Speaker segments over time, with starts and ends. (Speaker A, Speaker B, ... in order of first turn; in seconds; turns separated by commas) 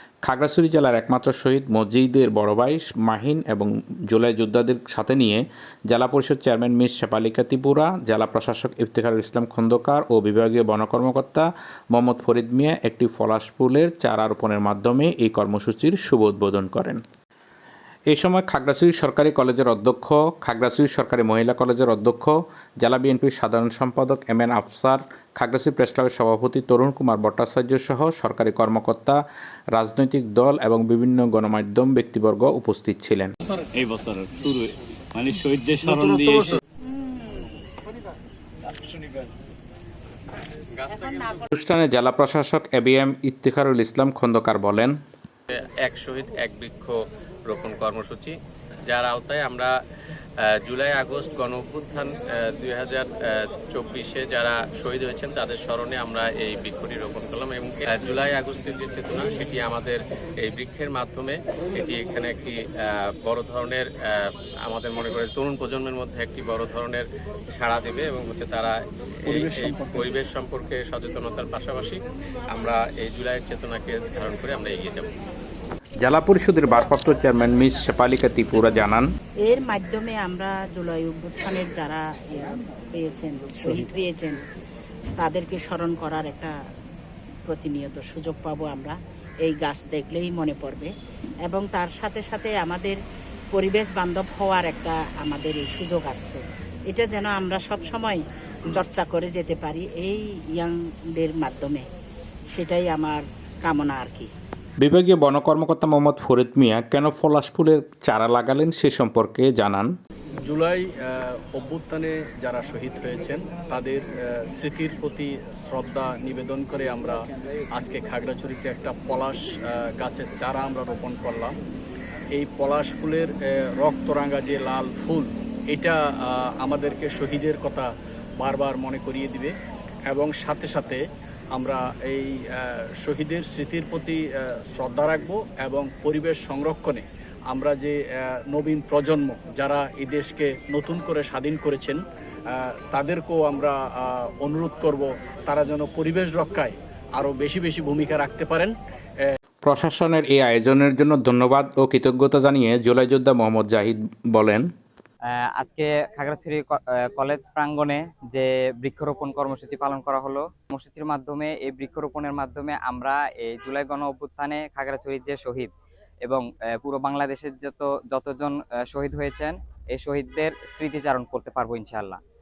Speaker A: 0.2-17.0, Speaker A: 18.1-29.2, Speaker A: 29.7-33.3, Speaker B: 33.7-36.6, Speaker C: 37.0-37.5, Speaker D: 40.8-41.3, Speaker C: 41.0-41.4, Speaker A: 41.5-45.0, Speaker D: 45.5-47.0, Speaker D: 47.5-48.4, Speaker D: 48.9-49.7, Speaker D: 50.4-68.8, Speaker D: 69.3-72.0, Speaker D: 72.5-75.1, Speaker A: 76.0-79.1, Speaker C: 79.5-84.4, Speaker C: 85.2-86.5, Speaker C: 87.5-90.9, Speaker C: 91.5-93.0, Speaker C: 93.5-101.8, Speaker C: 102.5-104.3, Speaker A: 104.8-109.9, Speaker E: 110.5-117.2, Speaker E: 117.8-121.5, Speaker E: 122.4-127.9, Speaker E: 128.4-129.5, Speaker E: 130.1-131.0, Speaker E: 131.6-142.0, Speaker E: 142.5-148.7, Speaker A: 149.7-154.7, Speaker F: 155.3-165.7, Speaker F: 166.2-172.2